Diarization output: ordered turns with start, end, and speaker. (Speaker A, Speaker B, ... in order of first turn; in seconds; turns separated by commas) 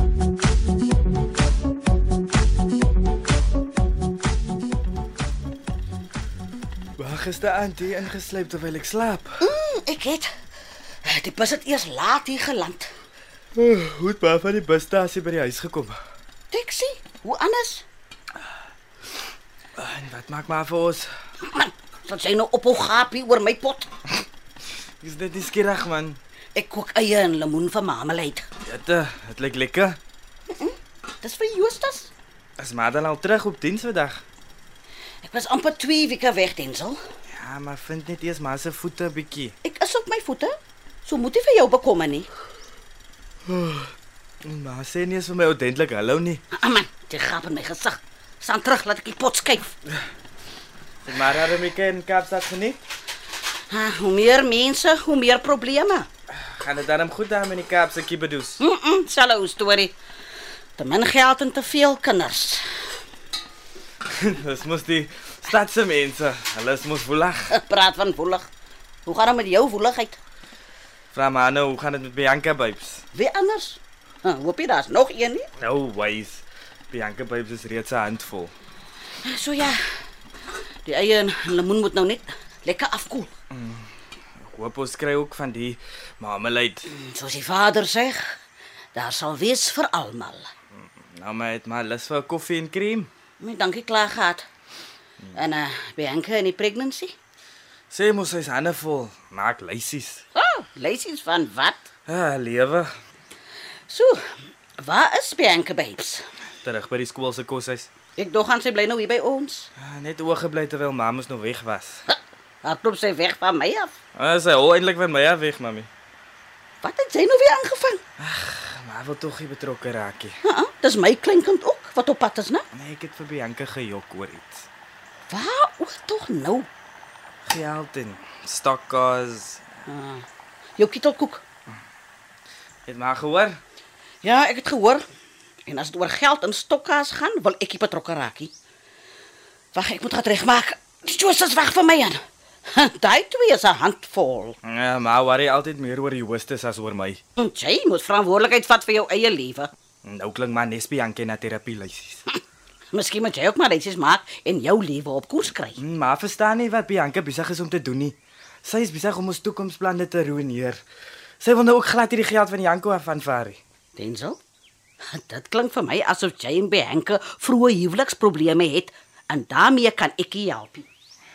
Speaker A: 7.0-9.5, Speaker B: 9.4-10.3, Speaker B: 11.0-12.9, Speaker A: 13.6-16.0, Speaker B: 16.5-17.8, Speaker A: 19.8-21.1, Speaker B: 21.5-23.9, Speaker A: 25.0-26.2, Speaker B: 26.6-28.5, Speaker A: 28.6-30.0, Speaker B: 30.5-32.1, Speaker A: 32.6-34.2, Speaker B: 35.2-37.0, Speaker A: 37.3-39.6, Speaker B: 39.6-42.3, Speaker A: 43.5-43.9, Speaker A: 44.5-46.4, Speaker B: 46.5-49.8, Speaker A: 51.0-52.8, Speaker B: 53.7-56.1, Speaker A: 56.4-58.6, Speaker B: 58.6-60.0, Speaker B: 60.8-62.8, Speaker A: 64.1-67.5, Speaker B: 67.5-68.5, Speaker B: 69.1-70.2, Speaker A: 71.1-73.0, Speaker B: 73.1-75.5, Speaker A: 75.6-78.5, Speaker B: 79.2-79.8, Speaker B: 80.8-83.3, Speaker A: 83.5-83.9, Speaker A: 84.4-86.9, Speaker B: 86.9-88.4, Speaker B: 89.0-90.5, Speaker A: 90.8-93.1, Speaker B: 93.4-94.5, Speaker A: 95.2-95.5, Speaker B: 95.3-97.2, Speaker A: 97.9-100.2, Speaker B: 100.3-101.9, Speaker A: 102.1-102.9, Speaker B: 103.9-106.3, Speaker A: 106.6-107.9, Speaker B: 108.2-109.7, Speaker A: 109.8-112.1, Speaker B: 112.1-113.9, Speaker A: 114.2-115.9, Speaker B: 116.8-118.0, Speaker A: 118.2-120.4, Speaker B: 120.4-122.7, Speaker A: 122.7-124.7, Speaker B: 125.3-126.7, Speaker A: 127.5-129.6, Speaker B: 129.9-130.2, Speaker B: 130.8-131.4, Speaker A: 132.9-133.6, Speaker B: 134.2-135.1, Speaker B: 135.7-138.5, Speaker B: 139.7-144.6, Speaker A: 144.6-147.2, Speaker B: 147.4-149.7, Speaker A: 150.1-152.3, Speaker B: 152.9-155.8, Speaker A: 155.8-160.8, Speaker A: 161.4-163.6, Speaker B: 164.0-164.4, Speaker B: 165.0-170.9